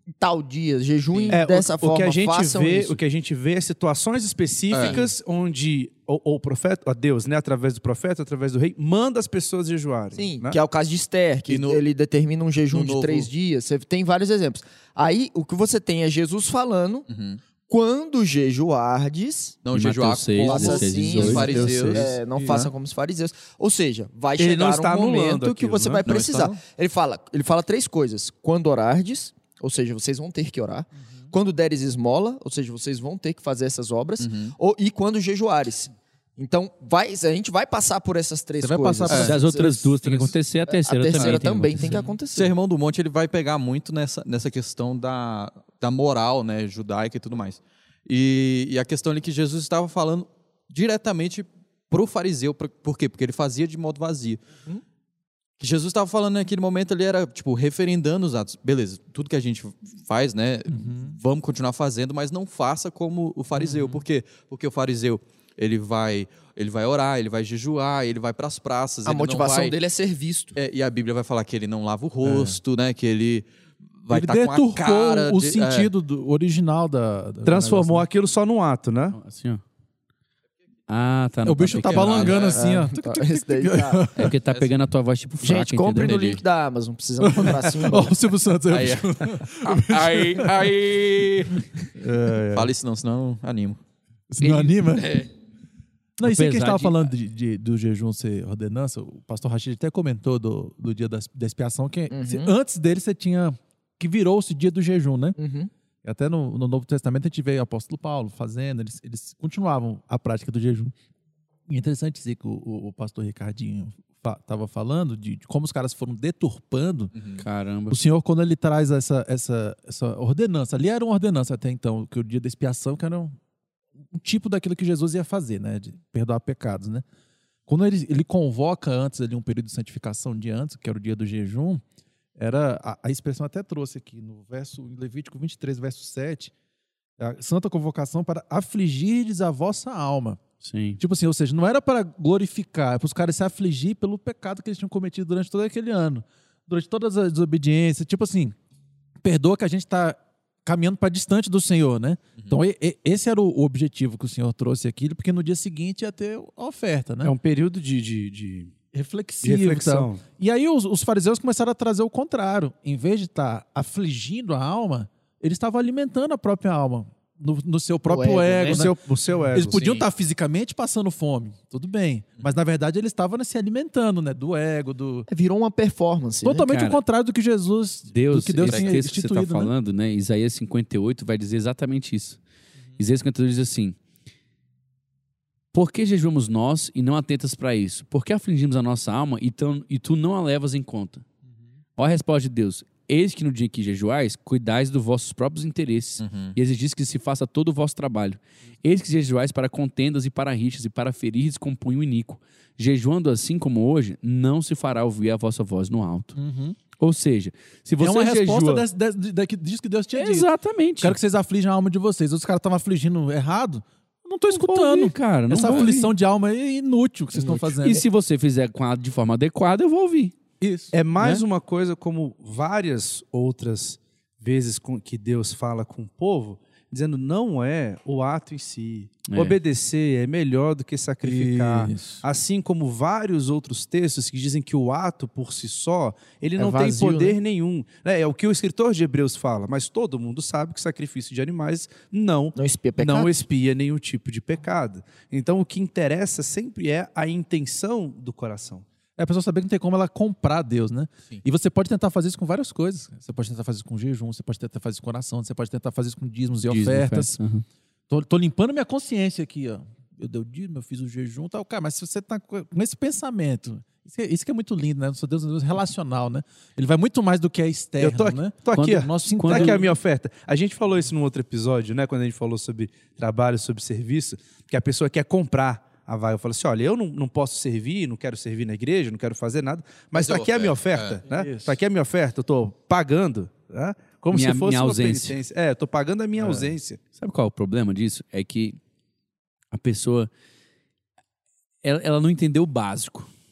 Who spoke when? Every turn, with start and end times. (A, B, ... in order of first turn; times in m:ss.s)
0:00.2-0:03.0 A
0:01.1-0:01.4 B
0:01.3-0:10.6 C
0:04.7-0:05.0 B
0:04.8-0:05.1 A
0:10.1-0:17.1 A
0:11.5-0:11.8 B
0:12.7-0:13.3 B
0:17.1-0:17.4 B
0:17.7-0:19.6 A
0:19.6-0:22.6 B
0:19.7-0:22.1 D
0:20.4-0:39.9 A
0:22.3-0:22.7 E
0:24.4-0:26.1 C
0:26.0-0:26.6 B
0:34.2-0:34.6 B
0:38.6-0:39.8 E
0:39.1-0:39.4 B
0:39.1-0:42.0 D
0:40.7-0:42.5 A
0:41.1-0:41.4 B
0:42.3-0:54.4 B
0:55.6-1:09.8 B
1:00.7-1:01.2 E
1:03.6-1:04.0 E
1:09.0-1:10.6 A
1:10.6-1:13.5 B
1:12.2-1:12.6 E
1:14.0-1:15.9 B
1:14.1-1:18.1 E
1:17.4-1:19.2 C
1:19.1-1:19.6 D
1:20.9-1:22.4 D
1:21.4-1:24.3 E
1:21.8-1:22.7 B
1:22.5-1:24.0 A
1:24.1-1:26.3 D
1:25.4-1:28.1 A
1:26.0-1:26.4 B
1:27.2-1:30.7 E
1:28.7-1:31.6 B
1:31.9-1:32.7 E
1:32.5-1:33.8 B
1:34.3-1:35.2 E
1:34.4-1:34.7 D
1:34.9-1:35.3 B
1:36.2-1:45.4 E
1:36.2-1:37.1 D
1:42.1-1:42.5 A
1:45.4-1:45.7 A
1:46.0-1:50.9 E
1:51.7-1:57.1 E
1:57.1-1:57.4 B
1:57.4-1:58.0 D
1:57.9-2:03.3 E
2:04.1-2:07.0 E
2:07.7-2:11.8 E
2:12.4-2:16.5 E
2:17.2-2:20.4 E
2:20.6-2:21.0 D
2:21.0-2:28.6 E
2:29.2-2:37.3 E
2:37.2-2:38.7 C
2:38.9-2:49.0 E
2:39.4-2:40.2 C
2:48.1-2:48.9 A
2:48.6-2:50.0 C
2:49.5-2:55.3 E
2:49.8-2:50.0 B
2:55.3-2:56.7 A
2:56.4-2:59.7 E
2:56.6-2:57.0 D
2:58.1-3:02.4 D
2:58.6-2:59.0 B
3:03.0-3:04.0 D
3:05.7-3:11.2 D
3:12.0-3:26.4 D
3:16.2-3:16.6 B
3:26.4-3:26.8 E
3:27.0-3:28.8 D
3:28.0-3:38.0 E
3:30.2-3:31.2 D
3:34.5-3:36.1 D
3:37.5-3:40.3 D
3:40.6-3:40.9 E
3:40.9-4:08.8 C
3:41.2-3:41.4 D
3:49.3-3:49.6 D
3:51.2-3:52.2 E
3:56.6-3:57.4 E
4:02.6-4:03.3 A
4:09.2-4:17.4 E
4:16.6-4:17.6 D
4:18.1-4:29.9 E
4:28.0-4:47.0 C
4:28.7-4:29.8 D
4:40.1-4:41.2 B
4:41.2-4:41.8 E
4:44.3-4:45.4 D
4:46.4-4:46.7 E
4:47.2-4:48.8 D
4:49.7-4:50.3 D
4:51.8-4:53.3 D